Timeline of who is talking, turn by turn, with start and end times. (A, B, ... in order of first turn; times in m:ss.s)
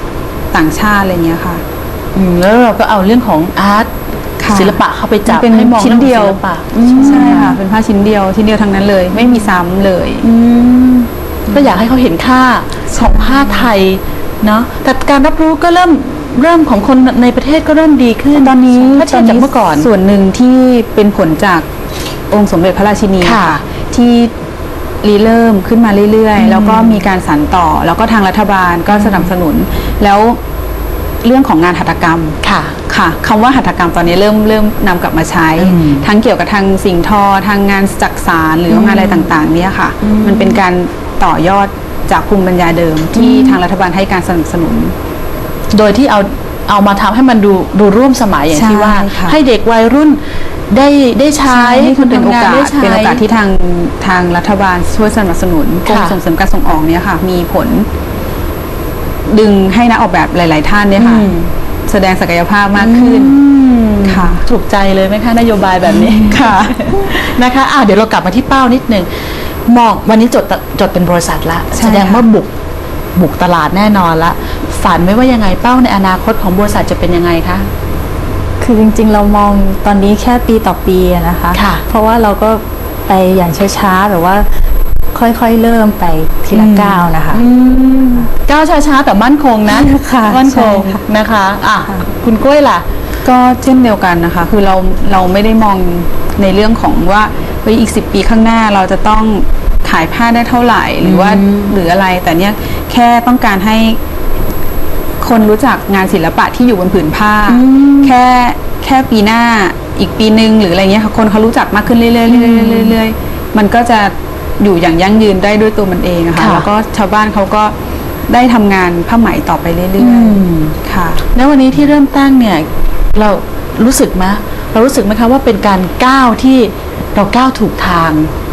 0:00.5-0:01.6 A
0:02.2-0:03.9 B
0:04.4-0:06.4 A
0:04.5-0:07.6 B
0:07.0-0:10.2 A
0:10.2-0:19.9 B
0:12.9-0:13.7 A
0:18.4-0:21.7 A
0:22.3-0:24.3 A
0:23.2-0:23.6 B
0:25.0-0:30.4 A
0:26.4-0:27.1 B
0:28.9-0:29.3 B
0:31.2-0:32.4 A
0:32.4-0:32.8 B
0:32.9-0:45.0 A
0:35.6-0:36.1 B
0:38.7-0:39.3 B
0:40.0-0:40.6 B
0:43.2-0:43.6 B
0:45.7-0:53.2 B
0:48.5-0:49.4 A
0:51.5-0:57.9 A
0:55.9-0:56.2 B
0:59.3-1:01.3 A
1:01.0-1:01.5 B
1:01.9-1:03.4 A
1:02.8-1:09.1 B
1:04.0-1:04.4 A
1:06.0-1:06.9 A
1:09.7-1:12.5 B
1:11.8-1:12.3 A
1:13.2-1:17.7 B
1:18.6-1:24.5 C
1:21.5-1:21.8 B
1:25.1-1:27.4 C
1:26.5-1:32.8 B
1:29.7-1:31.0 C
1:33.2-1:44.0 A
1:41.0-1:41.7 B
1:45.2-1:57.7 A
1:47.5-1:48.1 B
1:52.3-1:53.0 B
1:56.4-1:56.7 B
1:58.3-2:01.2 A
2:00.0-2:00.8 B
2:01.3-2:08.3 B